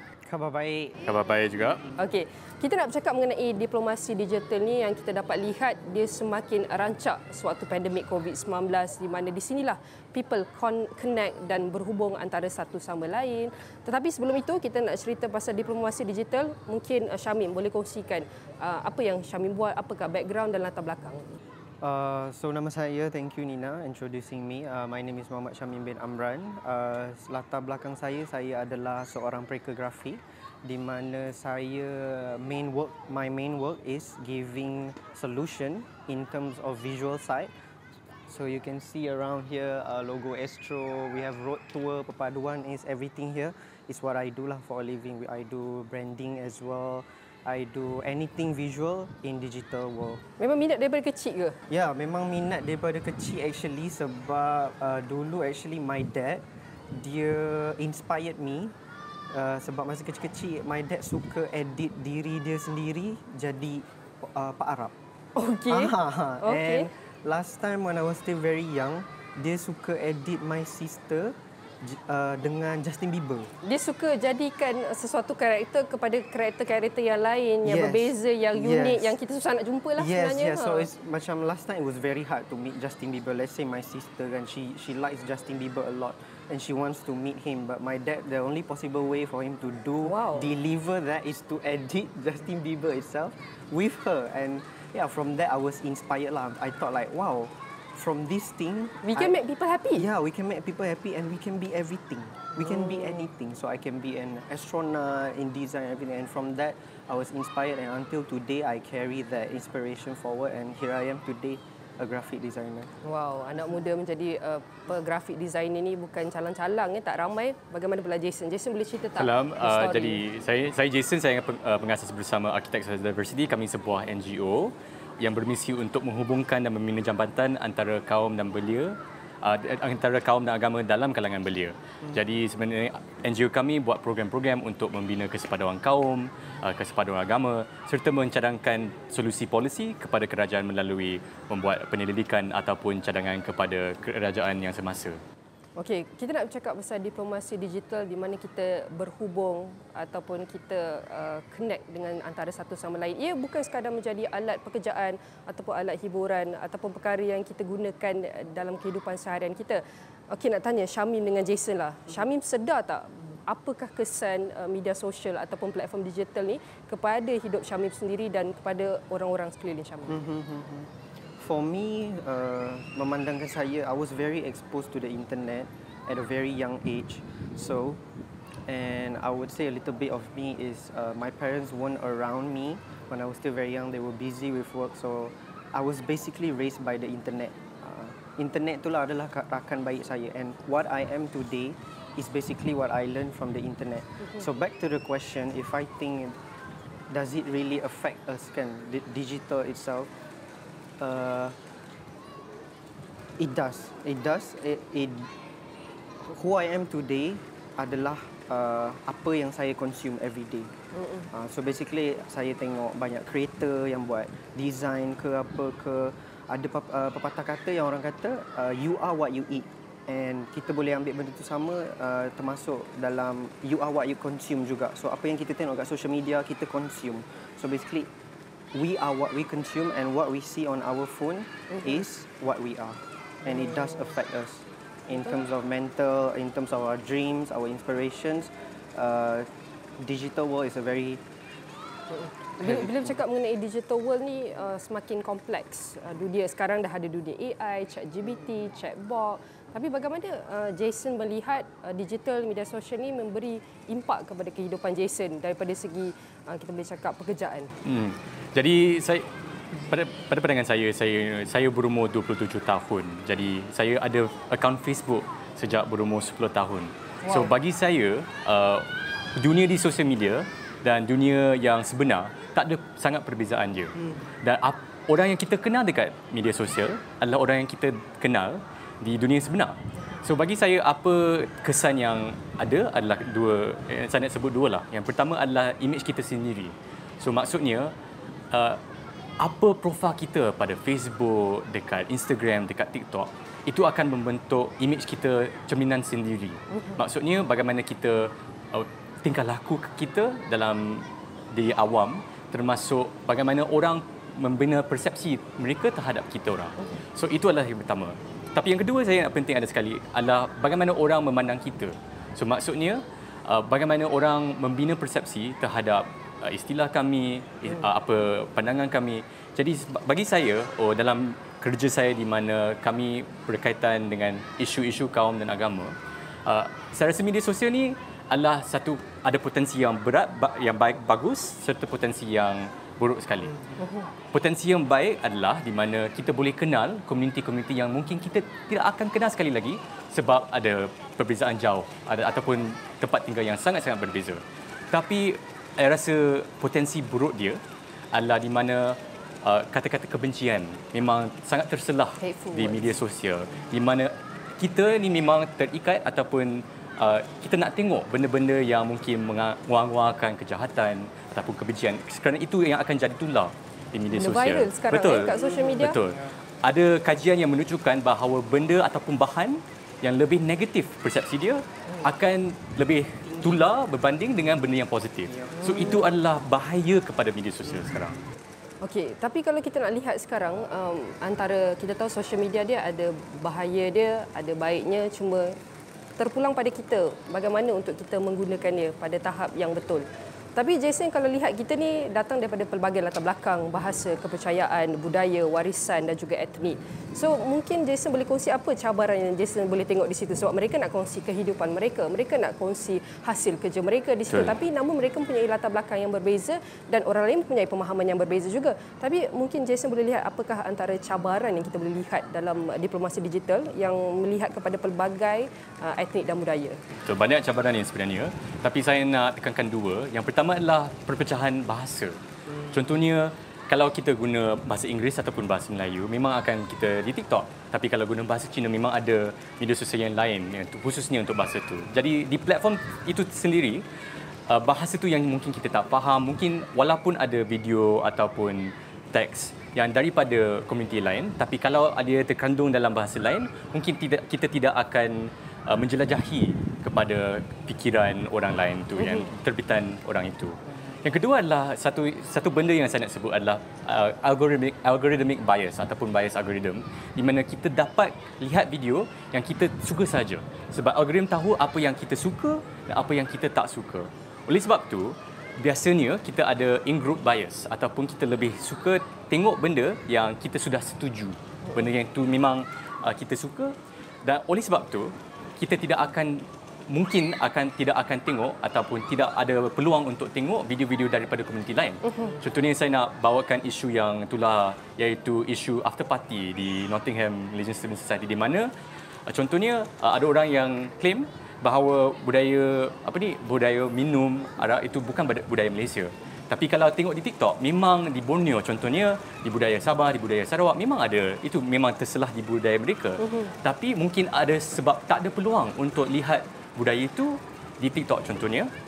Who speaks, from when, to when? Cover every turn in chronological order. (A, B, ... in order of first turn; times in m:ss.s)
0:00.3-0:01.1 A
0:01.0-0:01.8 B
0:02.0-0:21.4 C
0:21.8-0:37.5 A
0:38.3-0:50.2 A
0:50.4-0:51.6 C
0:51.7-0:58.7 A
0:59.3-1:04.9 A
1:05.4-1:06.9 C
1:05.7-1:13.5 A
1:13.6-1:20.9 C
1:17.6-1:19.2 A
1:20.0-1:39.3 A
1:30.0-1:30.5 C
1:39.0-1:40.1 C
1:40.0-1:52.9 A
1:53.0-2:00.2 C
1:59.2-2:25.2 B
2:25.8-2:50.2 C
2:50.1-2:58.0 A
2:58.7-3:16.4 A
3:17.1-3:20.1 A
3:21.0-3:21.6 A
3:23.4-3:25.3 A
3:26.2-3:30.7 A
3:31.0-3:31.3 C
3:31.3-3:48.1 A
3:48.7-3:59.5 A
4:00.0-4:01.2 A
4:02.1-4:17.7 C
4:02.6-4:03.1 A
4:17.8-4:47.9 B
4:27.2-4:27.5 C
4:48.5-4:48.8 B
4:49.4-5:25.9 B
4:56.7-4:57.0 C
5:26.5-5:33.6 B
5:33.8-5:34.1 C
5:34.3-5:47.6 B
5:48.1-6:18.2 B
5:52.2-5:53.0 C
6:04.1-6:06.0 C
6:15.5-6:16.0 C
6:18.8-6:25.6 C
6:26.2-6:56.8 C
6:57.0-7:13.8 B
7:14.5-8:08.7 B
7:29.0-7:29.3 C
8:09.3-8:28.7 B
8:23.2-8:23.5 C